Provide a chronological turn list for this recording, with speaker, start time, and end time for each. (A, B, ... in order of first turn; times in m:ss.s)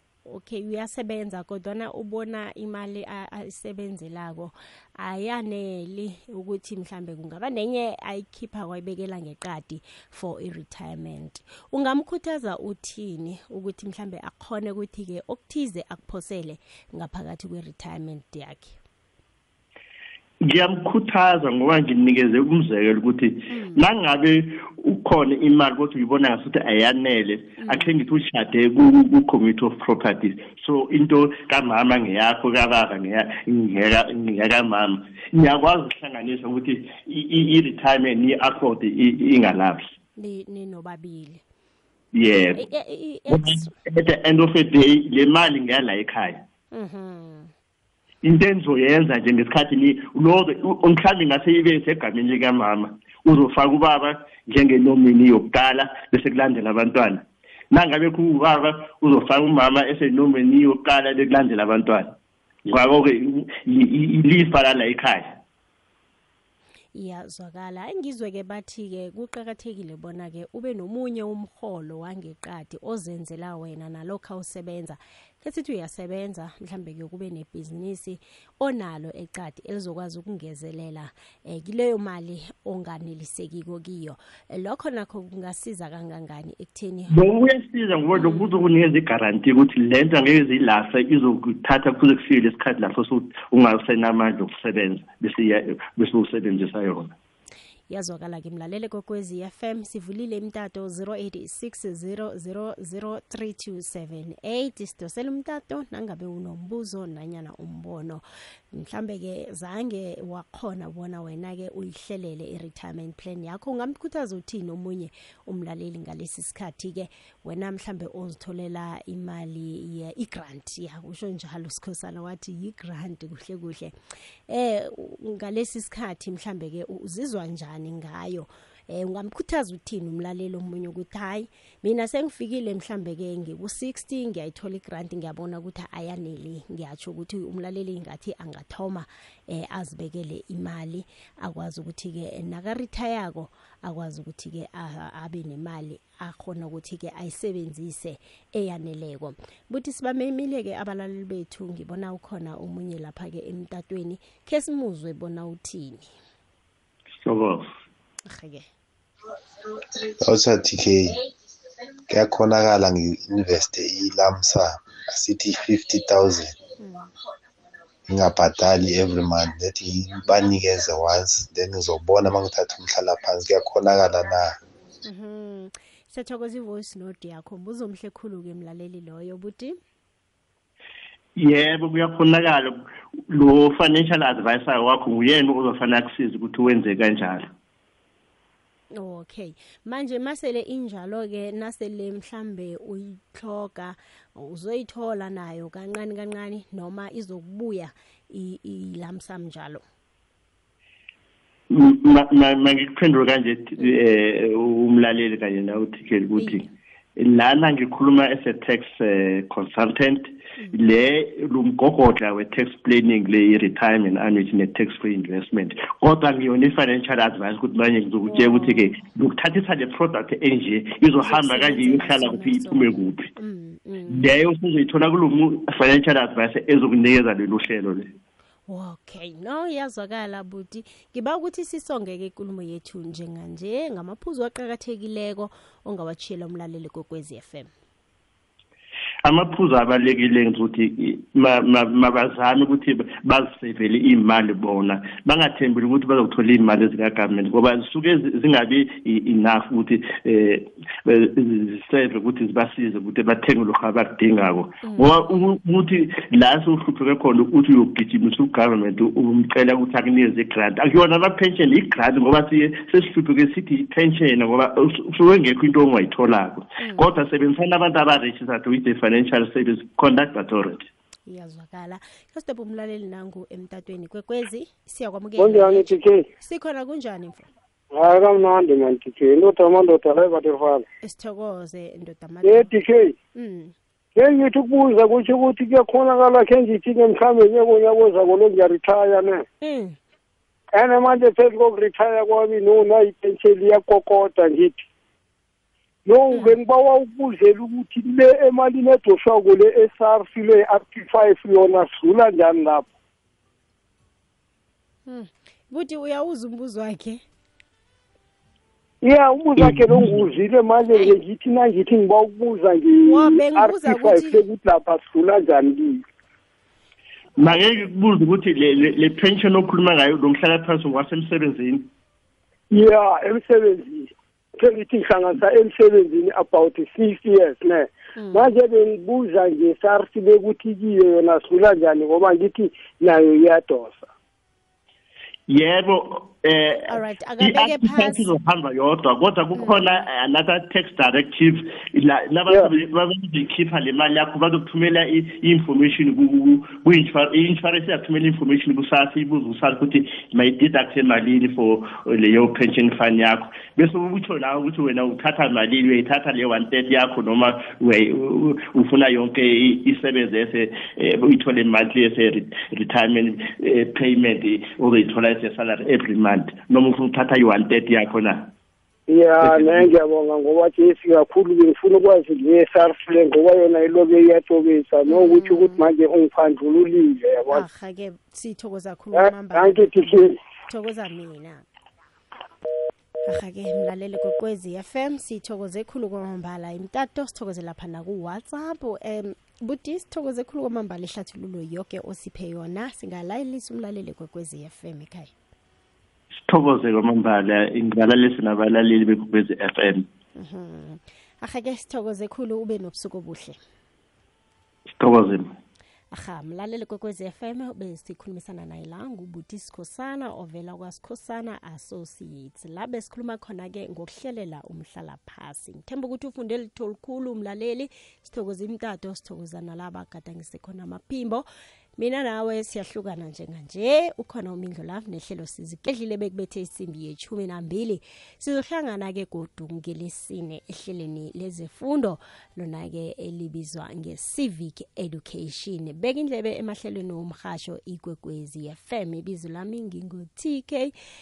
0:00.2-0:18.8 A
0:20.4-0:39.9 B
0:23.5-0:23.8 A
0:27.6-0:27.9 A
0:40.2-0:41.4 A
0:42.1-0:42.6 B
0:42.5-0:43.8 A
0:43.3-0:46.4 B
0:46.7-0:47.5 A
0:48.2-1:02.1 B
1:02.6-1:05.4 B
1:06.9-1:27.2 A
1:27.1-1:37.1 B
1:28.1-1:28.6 A
1:37.9-2:03.9 A
2:04.5-2:36.1 A
2:37.2-2:37.7 B
2:38.2-2:38.7 A
2:40.0-2:41.2 C
2:42.1-2:46.6 C
2:46.8-2:47.1 A
2:48.1-2:54.6 C
2:55.0-2:59.8 A
3:01.4-3:02.8 B
3:03.3-3:07.5 B
3:08.9-3:19.8 A
3:21.7-3:26.6 B
3:26.4-3:26.7 A
3:27.2-3:43.3 B
3:38.3-3:38.9 A
3:41.2-3:44.3 A
3:44.1-3:48.1 B
3:48.7-3:57.7 A
3:59.2-4:30.9 B
4:14.8-4:15.5 A
4:26.8-4:27.1 A
4:31.3-4:37.5 A
4:35.4-4:36.3 D
4:37.9-4:40.8 D
4:41.0-4:42.7 A
4:42.4-4:43.2 D
4:43.3-4:43.7 A
4:44.2-4:49.4 D
4:49.6-4:50.0 A
4:50.7-4:54.8 D
4:56.0-5:02.9 D
4:56.3-4:56.6 A
5:05.0-5:07.2 A
5:09.0-5:16.0 D
5:09.6-5:10.3 B
5:13.1-5:14.4 A
5:17.4-5:21.9 B
5:22.7-5:34.1 D
5:28.1-5:28.5 A
5:35.5-6:08.5 B
5:36.8-5:38.3 A
5:39.6-5:40.0 A
6:09.1-6:17.6 D
6:09.4-6:09.9 B
6:15.1-6:15.9 A
6:17.5-6:21.6 A
6:19.1-6:20.4 D
6:23.2-6:35.3 A
6:36.5-6:40.0 B
6:40.4-6:43.6 A
6:44.9-6:45.5 B
6:46.1-7:01.4 A
7:02.0-7:20.9 A